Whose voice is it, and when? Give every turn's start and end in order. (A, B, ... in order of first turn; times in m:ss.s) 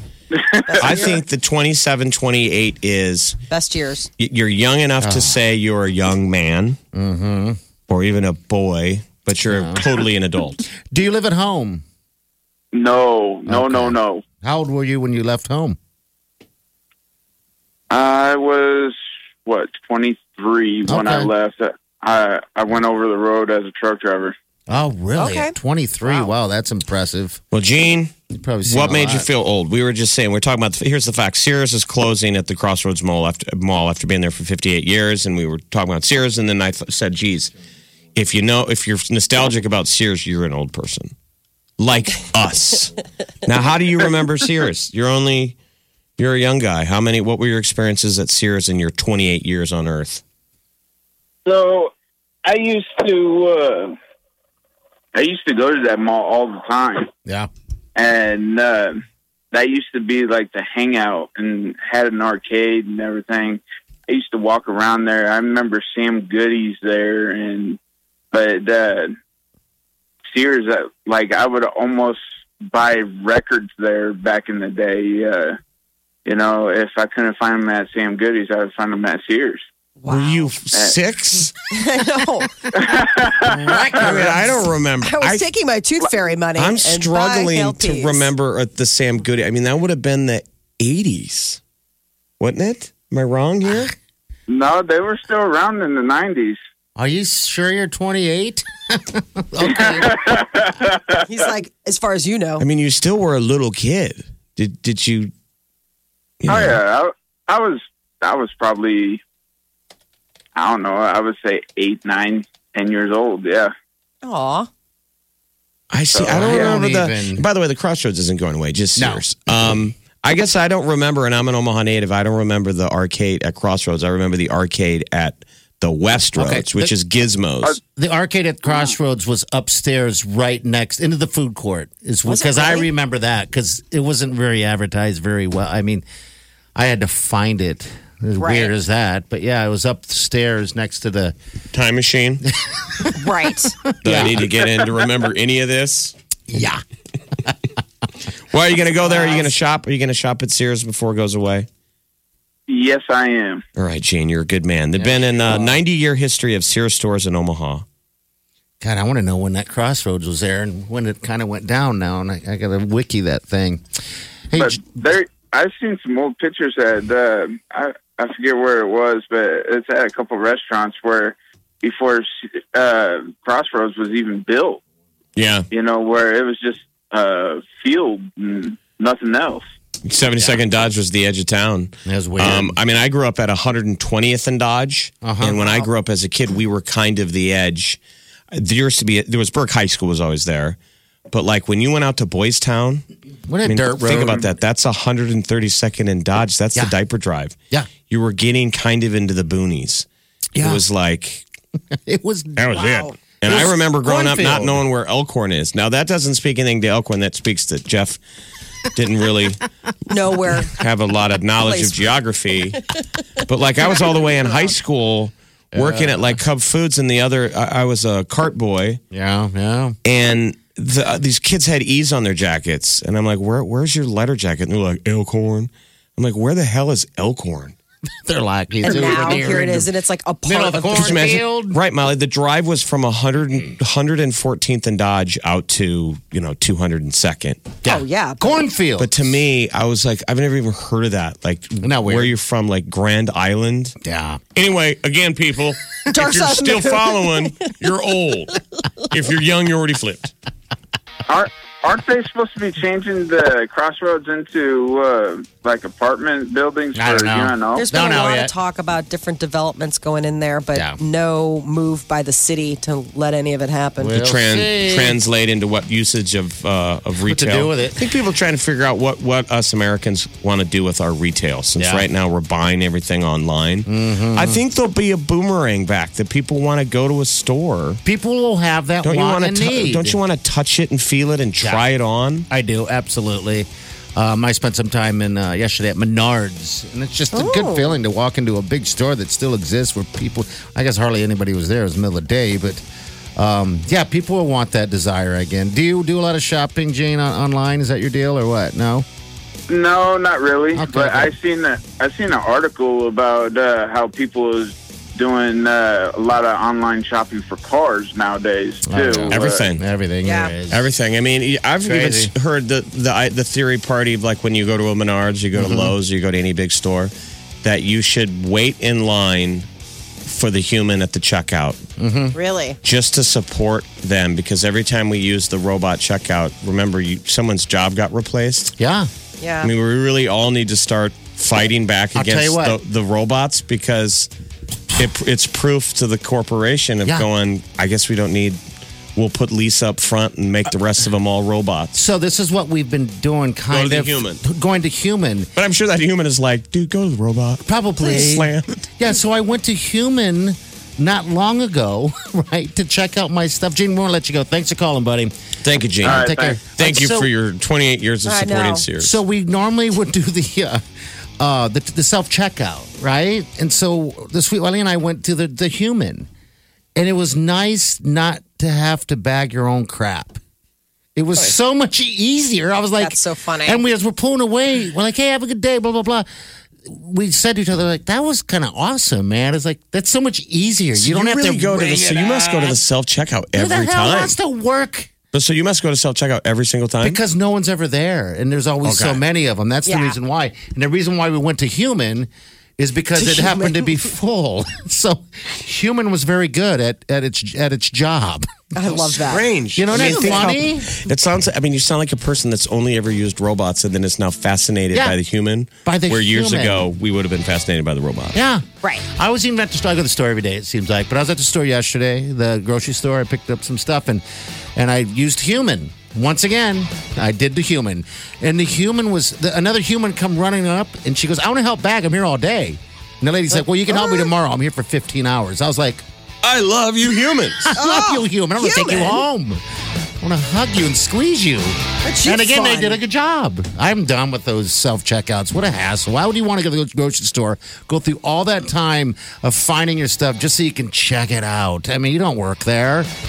0:00.3-0:01.0 A
0:00.7-0:01.2 B
0:00.8-0:03.4 C
0:03.5-0:04.1 B
0:04.2-0:06.8 C
0:05.0-0:05.4 D
0:06.9-0:07.6 D
0:07.9-0:10.6 C
0:09.3-0:09.8 D
0:10.9-0:11.8 D
0:12.7-0:14.2 A
0:13.5-0:15.8 D
0:17.9-0:24.3 A
0:20.8-0:21.3 D
0:24.7-0:27.4 D
0:25.2-0:25.5 B
0:27.5-0:28.1 C
0:28.3-0:29.3 D
0:28.6-0:37.5 C
0:38.1-0:41.1 C
0:41.8-0:45.6 C
0:46.2-0:50.2 C
0:51.4-0:51.9 A
0:52.4-0:54.0 A
0:55.1-0:57.1 A
0:57.2-0:57.5 D
0:58.0-0:59.0 A
0:59.5-1:07.8 A
1:08.3-1:09.1 A
1:10.3-1:15.6 A
1:16.2-1:19.6 A
1:20.0-1:20.5 B
1:20.1-1:21.5 C
1:21.7-1:22.5 B
1:22.7-1:24.1 A
1:23.4-1:24.6 D
1:24.0-1:25.4 C
1:25.0-1:28.3 B
1:26.6-1:31.6 C
1:32.4-1:33.9 C
1:34.5-1:36.6 A
1:37.0-1:40.2 D
1:39.6-1:41.2 A
1:41.2-1:42.6 B
1:42.6-1:45.3 C
1:46.4-1:46.8 C
1:46.5-1:49.2 A
1:50.5-1:53.7 A
1:54.2-1:54.7 B
1:55.9-2:07.8 C
1:56.2-1:56.8 A
1:56.2-1:57.4 D
1:59.0-1:59.8 D
2:06.4-2:06.9 D
2:07.9-2:16.0 D
2:12.3-2:12.9 B
2:16.7-2:21.4 D
2:18.4-2:18.7 B
2:21.7-2:22.4 C
2:22.7-2:23.1 D
2:23.1-2:23.8 B
2:23.8-2:24.5 D
2:24.0-2:26.1 C
2:26.5-2:26.8 D
2:28.5-2:31.7 C
2:32.7-2:33.6 A
2:33.8-2:37.8 C
2:35.0-2:35.8 D
2:38.8-2:43.8 D
2:44.5-2:44.8 D
2:44.6-2:54.8 A
2:55.4-2:55.7 C
2:55.7-2:59.6 A
3:00.0-3:08.0 C
3:00.4-3:00.6 D
3:02.0-3:02.8 D
3:05.2-3:05.8 D
3:08.5-3:10.8 C
3:11.3-3:13.0 C
3:13.5-3:14.5 D
3:13.6-3:17.6 C
3:18.1-3:20.0 C
3:20.5-3:20.8 D
3:20.6-3:21.4 C
3:21.9-3:24.8 D
3:22.6-3:28.2 C
3:22.7-3:23.1 B
3:28.9-3:29.6 C
3:30.1-3:30.8 B
3:30.6-3:32.9 C
3:31.6-3:32.1 B
3:33.4-3:39.0 C
3:34.2-3:34.7 B
3:35.7-3:36.4 D
3:39.1-3:40.0 D
3:40.0-3:47.7 C
3:48.2-3:49.9 D
3:48.8-3:51.4 B
3:50.4-3:51.8 D
3:50.9-3:57.7 C
3:57.8-3:59.2 D
3:57.8-3:58.6 B
3:59.0-4:04.0 C
4:01.8-4:02.3 D
4:04.0-4:04.4 D
4:04.5-4:10.3 C
4:06.1-4:07.5 B
4:11.3-4:17.9 A
4:16.9-4:18.5 D
4:17.7-4:24.2 B
4:20.7-4:21.0 D
4:24.0-4:25.2 D
4:24.1-4:38.0 C
4:27.2-4:28.1 D
4:31.8-4:32.1 D
4:33.8-4:34.6 D
4:38.0-4:40.2 D
4:39.0-4:42.5 C
4:41.6-4:41.8 D
4:42.5-4:52.8 D
4:47.3-4:47.9 B
4:53.4-4:59.0 D
4:59.7-5:09.6 A
5:00.7-5:01.3 D
5:08.8-5:10.9 D
5:09.3-5:09.8 C
5:10.2-5:10.5 B
5:10.7-5:17.1 C
5:11.8-5:12.3 D
5:15.5-5:15.9 D
5:17.6-5:19.7 C
5:20.2-5:21.8 C
5:22.0-5:22.4 D
5:22.3-5:22.8 B
5:22.8-5:28.7 C
5:28.8-5:29.1 D
5:29.4-5:29.7 B
5:29.6-5:34.3 C
5:32.1-5:32.8 D
5:34.9-5:38.6 C
5:39.2-5:41.9 C
5:41.9-5:45.5 D
5:43.7-5:44.4 C
5:45.6-5:48.8 C
5:47.6-5:55.3 D
5:55.6-5:59.2 C
5:56.0-5:57.3 D
5:56.0-5:56.6 A
5:58.2-5:58.8 B
5:59.0-6:00.8 D
6:01.4-6:06.3 D
6:07.0-6:10.4 D
6:11.1-6:16.3 D
6:13.0-6:13.8 B
6:16.8-6:22.8 D
6:21.0-6:24.4 C
6:23.5-6:25.1 D
6:25.3-6:27.2 C
6:27.0-6:39.0 D
6:28.8-6:29.2 C
6:29.8-6:30.2 B
6:33.2-6:34.0 B
6:38.7-6:40.4 B
6:39.1-6:48.4 C
6:39.7-6:41.0 D
6:45.8-6:46.9 D
6:48.3-6:54.2 D
6:54.7-7:06.0 D
7:06.4-7:07.7 C
7:07.6-7:09.6 D
7:07.7-7:09.2 B
7:10.2-7:23.1 D
7:12.0-7:13.0 B